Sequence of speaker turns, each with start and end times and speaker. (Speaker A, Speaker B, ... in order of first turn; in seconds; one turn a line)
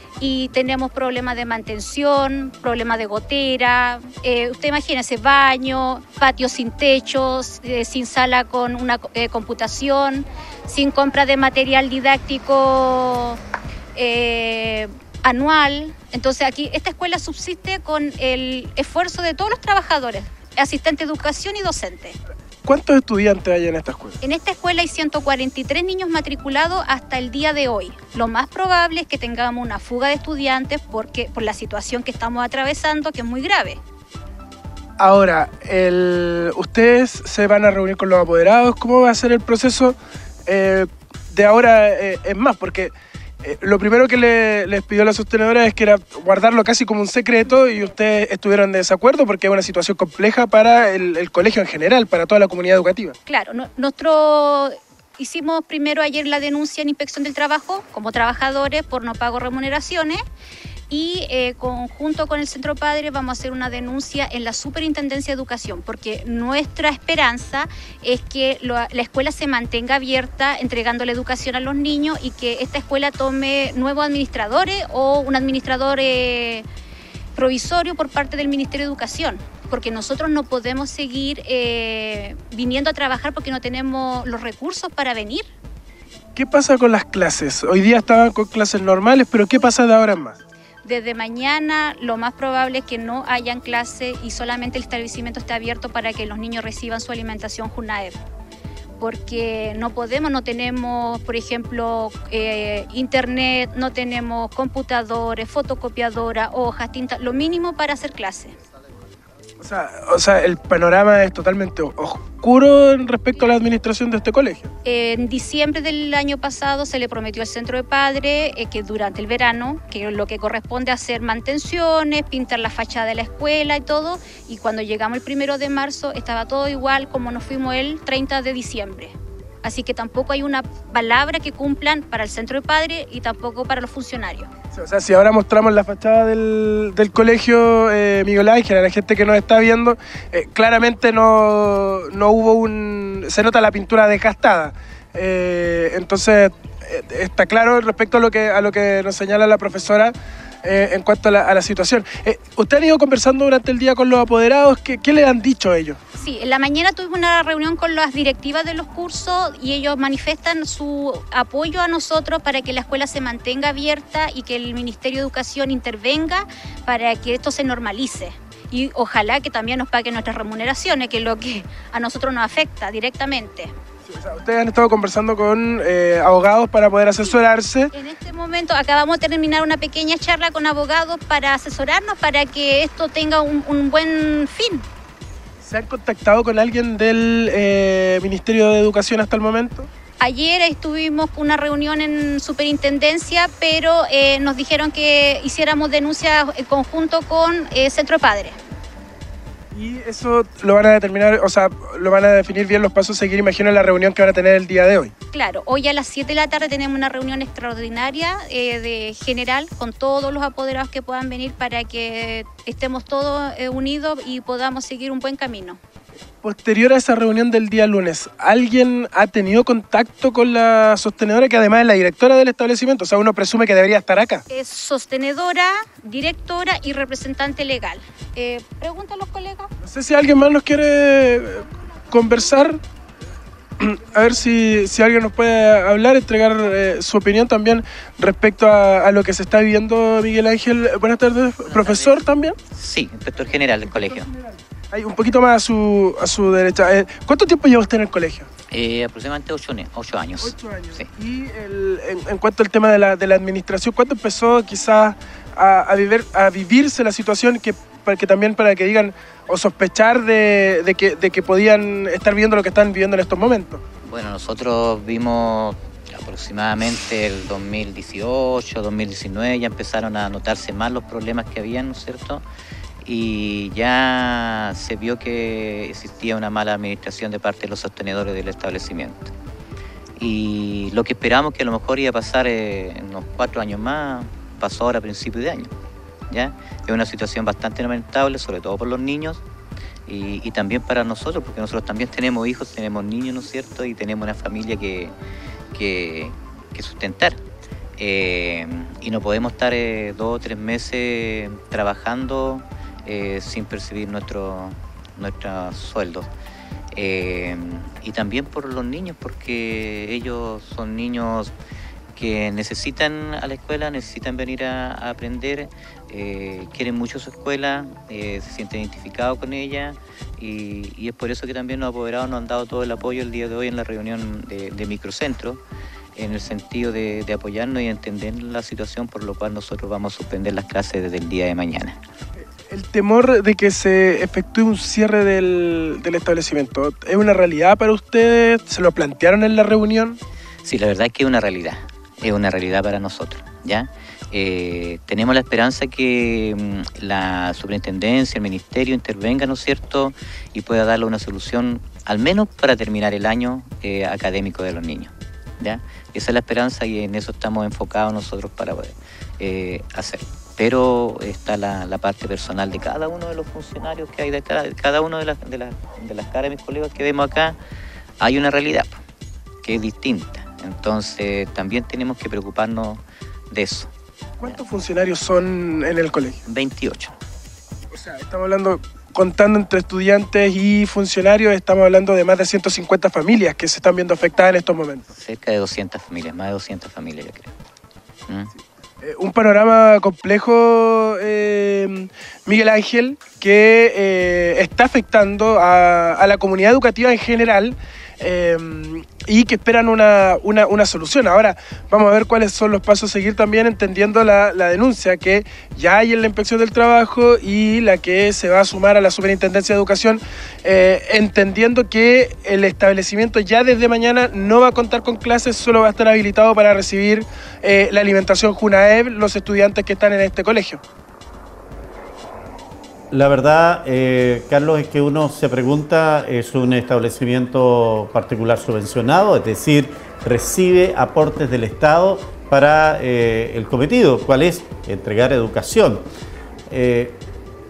Speaker A: 0.2-13.4
Speaker A: 13.9-22.2
Speaker B: 22.6-24.2
Speaker A: 24.2-33.8
Speaker B: 35.0-53.1
Speaker A: 53.3-60.2
Speaker A: 60.9-76.7
Speaker A: 77.3-85.5
Speaker B: 86.3-90.4
Speaker A: 90.8-98.2
Speaker A: 99.0-108.5
Speaker B: 109.6-114.7
Speaker A: 114.8-134.5
Speaker B: 134.7-156.0
Speaker A: 156.2-173.7
Speaker B: 174.1-177.9
Speaker A: 177.9-184.8
Speaker B: 185.6-189.9
Speaker A: 190.2-198.6
Speaker B: 199.7-205.1
Speaker A: 205.3-215.8
Speaker B: 216.4-224.4
Speaker A: 224.5-229.7
Speaker B: 229.8-232.8
Speaker B: 233.8-242.6
Speaker C: 241.6-244.3
Speaker B: 244.9-248.5
Speaker C: 248.7-251.1
Speaker B: 250.4-263.8
Speaker C: 264.0-272.4
Speaker C: 273.0-279.3
Speaker C: 280.2-285.7
Speaker C: 286.3-289.4
Speaker C: 290.1-295.1
Speaker C: 295.7-297.4
Speaker C: 298.0-306.3
Speaker C: 306.9-311.5
Speaker C: 312.1-325.6
Speaker C: 326.1-332.0
Speaker B: 332.7-340.2
Speaker C: 340.6-367.6
Speaker C: 368.2-369.0
Speaker C: 369.6-373.9
Speaker B: 374.4-376.4
Speaker C: 376.4-377.1
Speaker B: 377.9-385.1
Speaker C: 385.1-387.5
Speaker B: 389.0-420.8
Speaker D: 423.1-436.0
Speaker D: 436.7-437.2